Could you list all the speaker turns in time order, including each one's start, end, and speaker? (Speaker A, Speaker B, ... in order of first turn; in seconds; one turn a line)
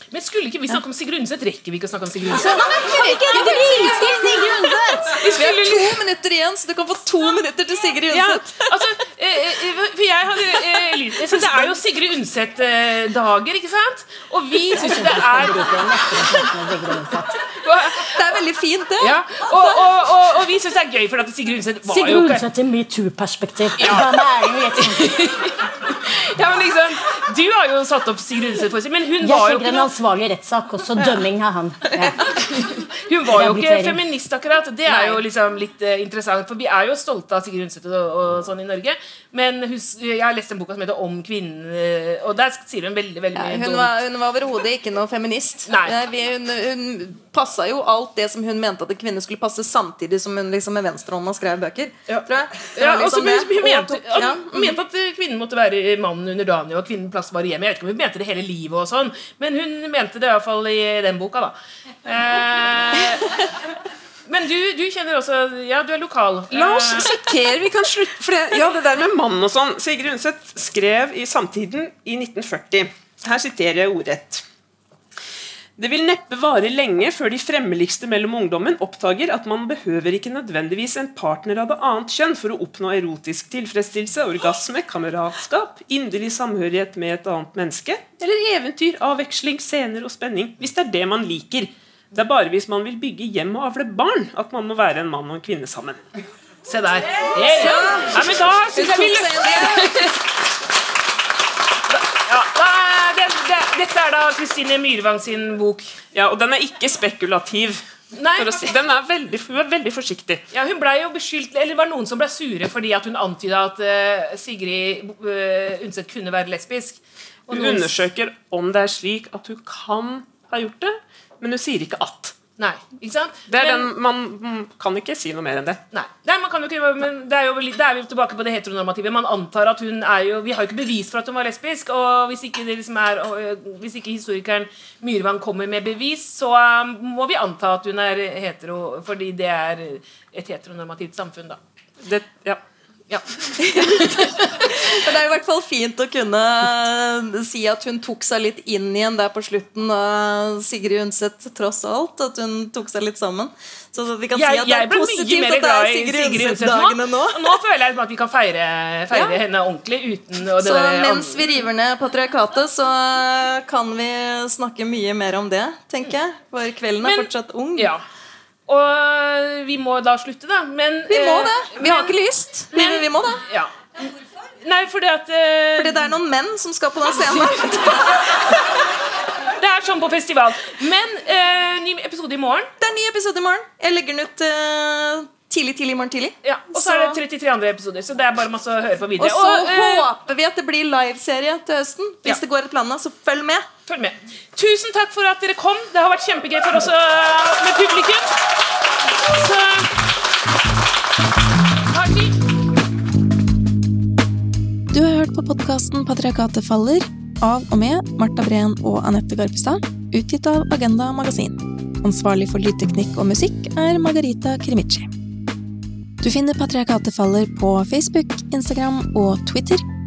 Speaker A: 0.1-4.0
Speaker B: 2.3-5.1
Speaker C: 2.6-8.9
Speaker A: 5.1-6.0
Speaker A: 8.1-15.6
Speaker B: 14.7-17.4
Speaker A: 17.5-18.2
Speaker C: 18.1-19.9
Speaker A: 19.0-22.4
Speaker B: 21.9-25.1
Speaker A: 23.8-24.2
Speaker A: 24.8-29.9
Speaker B: 29.2-32.3
Speaker A: 32.4-44.0
Speaker B: 33.3-34.0
Speaker C: 34.9-35.2
Speaker C: 43.3-54.8
Speaker A: 45.7-46.0
Speaker A: 52.1-63.4
Speaker A: 64.3-67.1
Speaker D: 66.5-74.4
Speaker D: 75.8-96.0
Speaker A: 96.7-100.2
Speaker C: 97.3-100.1
Speaker A: 101.9-106.0
Speaker D: 106.1-107.8
Speaker A: 108.1-108.7
Speaker D: 108.4-110.4
Speaker A: 110.5-118.0
Speaker D: 117.5-122.3
Speaker A: 122.6-123.9
Speaker D: 123.5-125.8
Speaker A: 125.9-141.6
Speaker D: 142.0-142.6
Speaker A: 143.1-144.9
Speaker C: 144.6-157.6
Speaker A: 154.3-161.4
Speaker C: 159.1-159.4
Speaker C: 160.6-167.9
Speaker A: 167.0-168.0
Speaker A: 168.7-172.2
Speaker C: 171.1-173.4
Speaker A: 172.7-176.1
Speaker C: 175.8-178.4
Speaker A: 179.6-182.7
Speaker C: 182.8-187.2
Speaker A: 186.4-190.1
Speaker C: 189.2-193.7
Speaker A: 193.9-198.4
Speaker A: 199.2-199.9
Speaker A: 201.9-202.4
Speaker C: 204.9-215.1
Speaker C: 216.2-219.9